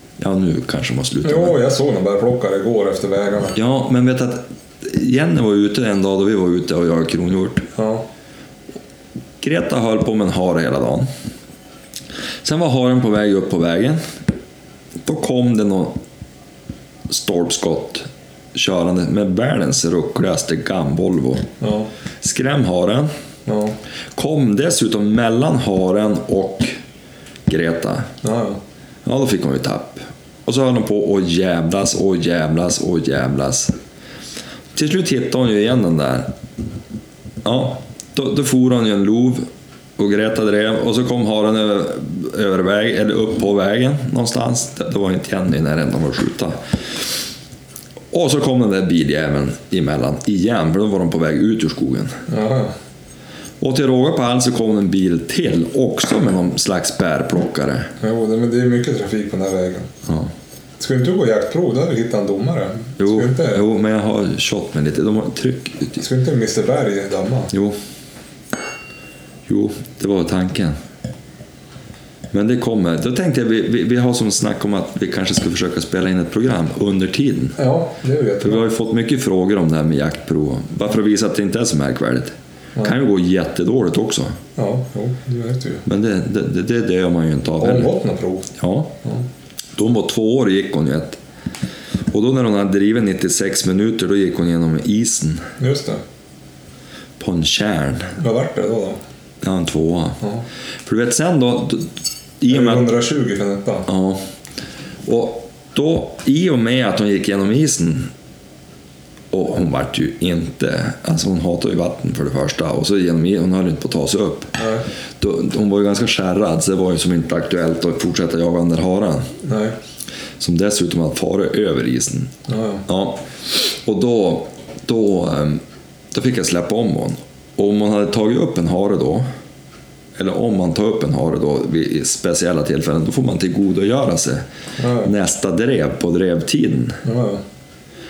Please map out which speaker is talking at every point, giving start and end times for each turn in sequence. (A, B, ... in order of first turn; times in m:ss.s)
0:00.2-0:01.6 A
0:01.2-0:03.6 B
0:03.6-0:07.7 A
0:07.8-0:08.1 B
0:09.4-0:11.1 A
0:12.4-0:14.0 A
0:15.0-0:16.0 A
0:17.1-0:21.5 A
0:21.6-0:21.9 B
0:22.2-0:23.1 A
0:23.5-0:23.8 B
0:24.2-0:26.7 A
0:27.5-0:28.1 A
0:28.2-0:28.6 B
0:29.0-0:33.8 A
0:34.7-0:36.3 A
0:37.4-0:39.5 A
0:40.0-0:46.6 A
0:48.1-0:52.2 A
0:52.3-0:52.7 B
0:53.6-0:57.9 A
0:58.0-0:59.9 B
1:00.1-1:00.3 A
1:00.8-1:03.6 B
1:03.0-1:06.0 A
1:06.0-1:07.5 B
1:07.5-1:07.8 A
1:09.5-1:10.8 A
1:12.3-1:17.6 A
1:17.6-1:18.7 B
1:18.4-1:24.4 A
1:24.6-1:25.8 B
1:25.9-1:28.0 A
1:27.6-1:28.5 B
1:28.6-1:29.0 A
1:29.8-1:31.2 A
1:32.1-1:35.5 A
1:35.6-1:36.0 B
1:37.2-1:38.2 A
1:38.2-1:39.0 B
1:39.4-1:40.2 A
1:40.8-1:42.9 A
1:42.5-1:43.9 B
1:43.9-1:44.2 A
1:45.1-1:48.1 A
1:49.3-1:54.6 A
1:54.6-1:54.8 B
1:55.2-1:59.3 A
1:59.4-1:59.8 B
2:00.4-2:02.3 A
2:02.5-2:02.8 B
2:02.9-2:09.2 A
2:10.2-2:14.4 A
2:14.8-2:15.1 B
2:15.0-2:17.0 A
2:17.0-2:17.4 B